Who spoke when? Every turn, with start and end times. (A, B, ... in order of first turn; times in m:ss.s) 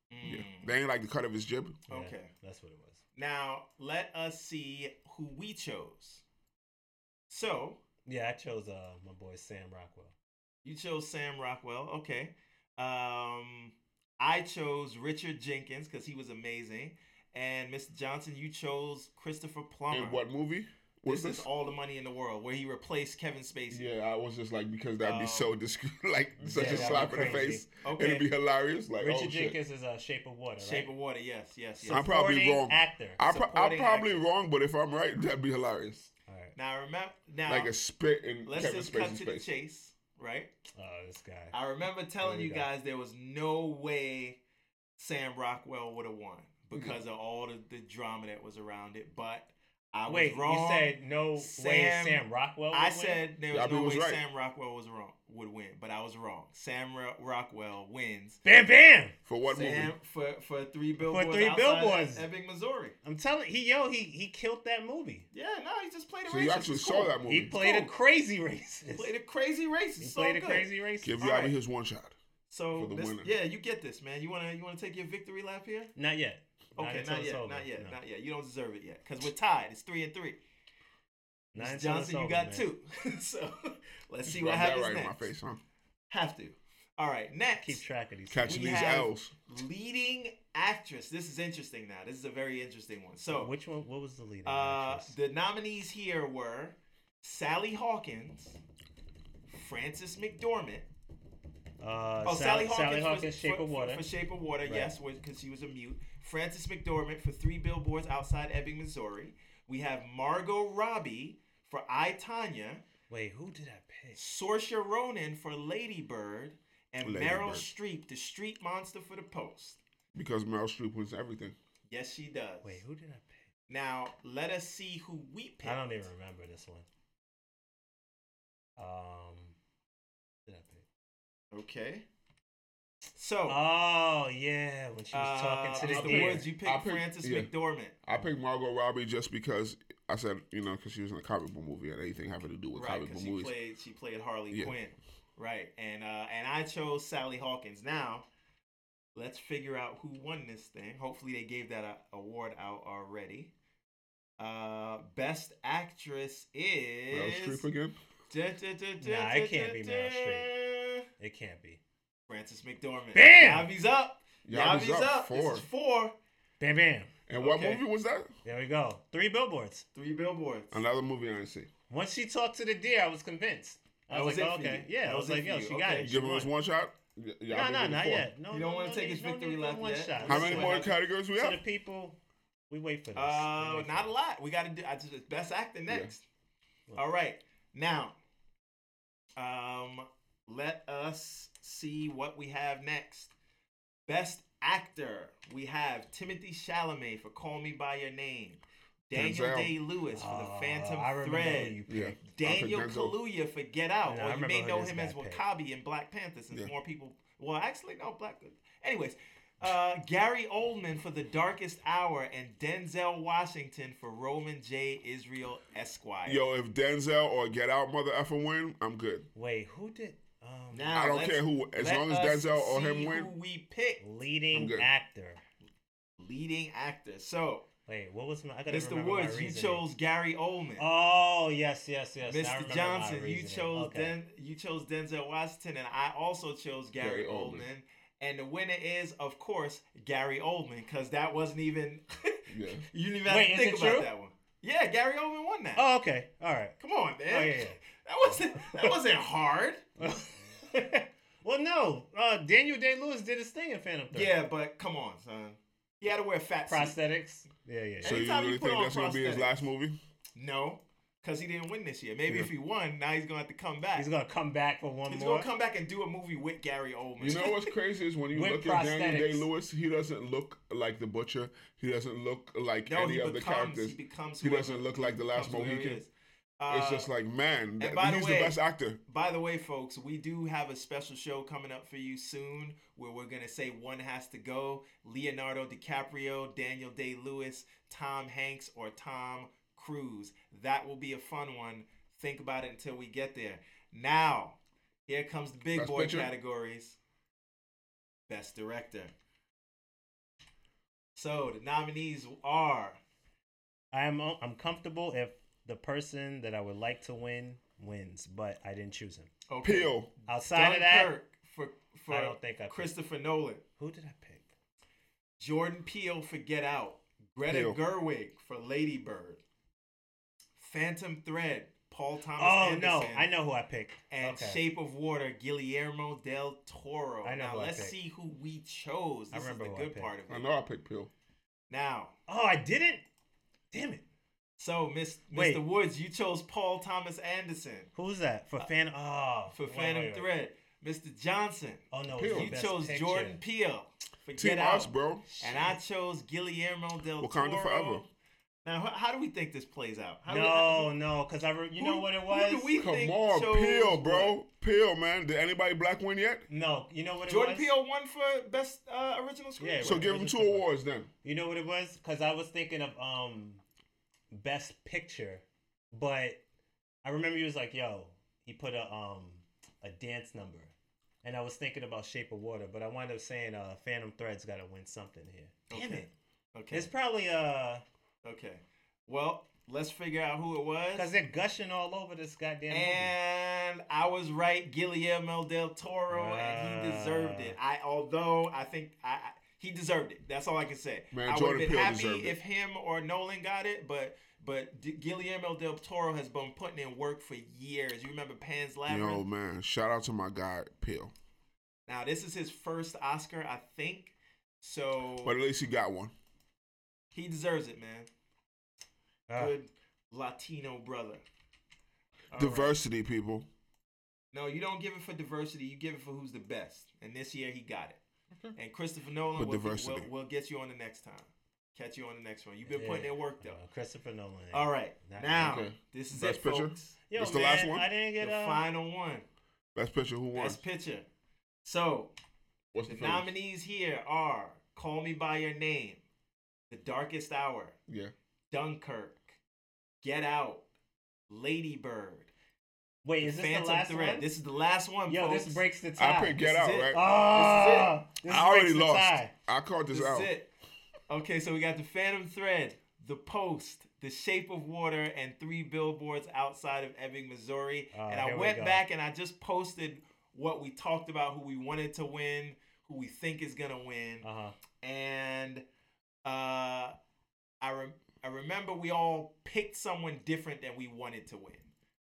0:00.1-0:00.7 A
0:00.2-0:01.8 B
0:01.9-0:02.3 A
0:01.9-0:03.0 C
0:03.2-0:06.2 A
0:07.3-0:07.8 A
0:08.1-0:10.1 C
0:10.6-0:20.2 A
0:19.9-0:21.5 B
0:21.1-0:23.9 A
0:23.7-0:29.6 B
0:25.0-0:25.5 A
0:26.4-0:28.3 A
0:26.6-0:27.6 C
0:29.0-0:30.9 C
0:30.6-0:32.0 A
0:31.8-0:33.2 C
0:31.9-0:36.1 B
0:33.2-0:34.2 A
0:36.3-0:36.5 C
0:36.6-0:37.7 A
0:37.5-0:39.5 B
0:38.5-0:40.5 A
0:40.8-0:41.6 C
0:41.5-0:44.4 A
0:42.2-0:42.7 C
0:45.0-0:58.4 A
0:46.7-0:47.0 B
0:50.1-0:53.2 C
0:53.5-0:54.2 B
0:58.4-0:59.2 C
0:59.3-0:59.9 B
0:59.5-1:03.0 A
1:01.0-1:02.3 C
1:03.0-1:05.3 C
1:05.3-1:07.9 A
1:06.3-1:07.5 B
1:07.3-1:09.1 C
1:08.9-1:11.5 A
1:10.0-1:11.2 C
1:11.0-1:12.2 B
1:12.5-1:15.9 A
1:12.7-1:13.3 B
1:16.0-1:18.0 C
1:16.8-1:20.4 A
1:21.6-1:22.7 C
1:21.6-1:25.3 A
1:24.2-1:25.6 B
1:26.1-1:27.8 A
1:27.6-1:29.0 C
1:28.3-1:29.3 B
1:28.5-1:33.5 A
1:33.3-1:35.1 C
1:34.4-1:38.6 A
1:39.5-1:40.9 A
1:41.8-1:44.1 C
1:42.2-1:52.8 A
1:44.7-1:45.0 C
1:53.1-1:54.2 C
1:54.2-1:59.8 A
1:57.0-1:57.7 B
2:00.1-2:01.6 B
2:01.9-2:02.8 A
2:02.6-2:03.4 C
2:03.7-2:06.0 A
2:05.6-2:06.9 C
2:08.8-2:09.6 C
2:10.5-2:10.8 C
2:11.5-2:12.1 A
2:13.2-2:13.6 A
2:13.5-2:16.5 C
2:15.1-2:18.0 A
2:15.8-2:17.5 B
2:18.0-2:23.5 B
2:22.8-2:28.2 A
2:29.2-2:33.5 A
2:34.4-2:37.6 A
2:37.1-2:38.0 B
2:38.3-2:41.1 A
2:39.0-2:40.5 C
2:41.2-2:41.8 C
2:42.3-2:46.1 A
2:43.2-2:43.7 C
2:44.4-2:45.7 B
2:46.6-2:47.1 C
2:47.3-2:48.3 B
2:47.4-2:47.8 A
2:48.4-2:49.8 C
2:50.0-2:50.8 A
2:50.7-2:51.7 B
2:51.9-2:56.5 C
2:54.1-2:56.1 A
2:56.0-2:58.3 B
2:57.5-3:02.2 C
2:58.5-3:00.9 A
3:00.2-3:01.6 B
3:02.7-3:04.2 C
3:03.2-3:06.2 A
3:07.0-3:08.2 A
3:09.4-3:13.3 A
3:14.1-3:36.4 A
3:19.2-3:19.7 B
3:20.1-3:22.2 C
3:21.9-3:23.2 B
3:24.0-3:25.4 C
3:36.2-3:39.3 B
3:39.4-3:41.0 C
3:40.7-3:44.0 A
3:40.9-3:43.3 B
3:44.0-3:45.4 C
3:44.5-3:44.9 B
3:46.2-3:47.7 A
3:47.9-3:49.8 C
3:48.7-3:50.8 A
3:50.8-3:54.1 C
3:52.3-4:05.8 A
3:57.0-3:57.7 B
4:02.5-4:02.8 B
4:03.3-4:04.1 C
4:05.8-4:06.8 C
4:06.8-4:10.3 A
4:07.3-4:08.9 C
4:10.0-4:14.4 C
4:14.1-4:17.0 A
4:16.7-4:18.2 C
4:18.0-4:19.5 A
4:18.0-4:20.0 B
4:20.4-4:24.1 A
4:24.0-4:25.5 C
4:25.1-4:27.7 A
4:27.2-4:36.0 B
4:28.3-4:29.5 C
4:32.9-4:37.1 A
4:36.7-4:39.0 B
4:37.8-4:38.6 A
4:39.1-4:54.6 A
4:55.1-4:57.0 A
4:55.7-4:56.3 B
4:58.3-4:59.1 A
5:01.2-5:03.0 A
5:03.9-5:09.3 C
5:09.5-5:13.6 A
5:09.6-5:10.1 B
5:10.3-5:11.1 C
5:12.1-5:12.9 C
5:13.8-5:14.5 C
5:15.4-5:19.4 A
5:17.5-5:17.8 B
5:20.6-5:23.3 A
5:22.4-5:24.6 C
5:24.1-5:30.4 A
5:27.2-5:28.0 C
5:29.3-5:30.1 C
5:30.3-5:31.1 B
5:31.7-5:32.1 A
5:32.3-5:33.0 C
5:33.7-5:34.0 C
5:34.6-5:37.9 A
5:35.3-5:35.6 C
5:38.0-5:40.3 C
5:39.5-5:48.1 A
5:41.9-5:43.4 C
5:42.2-5:42.6 B
5:44.4-5:45.3 B
5:45.4-5:45.8 C
5:47.2-5:48.0 B
5:48.6-5:50.9 A
5:50.3-5:52.7 C
5:51.8-5:54.4 A
5:52.8-5:56.5 B
5:56.5-5:57.7 C
5:57.3-6:00.0 A
5:59.6-6:00.7 C
5:59.8-6:01.1 B
6:01.2-6:03.6 C
6:04.3-6:06.4 C
6:07.0-6:10.7 C
6:11.2-6:16.1 C
6:15.7-6:16.9 A
6:16.7-6:17.8 C
6:18.2-6:21.1 A
6:21.0-6:23.2 C
6:22.7-6:39.2 A
6:26.1-6:27.6 C
6:31.1-6:32.4 B
6:38.9-6:41.1 B
6:41.9-6:45.4 A
6:45.2-6:46.1 B
6:47.1-6:48.1 A
6:49.3-6:49.6 C
6:49.4-6:51.2 A
6:52.3-6:52.8 A
6:52.4-6:53.5 B
6:54.3-6:58.0 A
6:58.6-7:03.6 A
6:59.4-7:00.1 B
7:02.7-7:05.6 C
7:04.5-7:09.2 A
7:05.4-7:07.9 B
7:07.1-7:08.6 C
7:09.8-7:10.6 B
7:10.3-7:11.1 A
7:11.6-7:12.1 A
7:12.7-7:13.3 B
7:12.9-7:16.0 A
7:16.7-7:17.8 A
7:17.9-7:18.1 B
7:18.5-7:19.4 A
7:20.0-7:20.6 A
7:21.3-7:22.3 A
7:23.0-7:24.3 C
7:23.2-7:25.6 A
7:25.1-7:29.3 C
7:26.0-7:27.0 B
7:26.4-7:28.0 A
7:28.3-7:30.3 B
7:29.9-7:30.5 A
7:31.1-7:44.3 A
7:37.9-7:38.8 C
7:44.2-7:44.6 C
7:44.8-7:45.6 A
7:46.2-7:47.0 A
7:47.6-7:51.7 A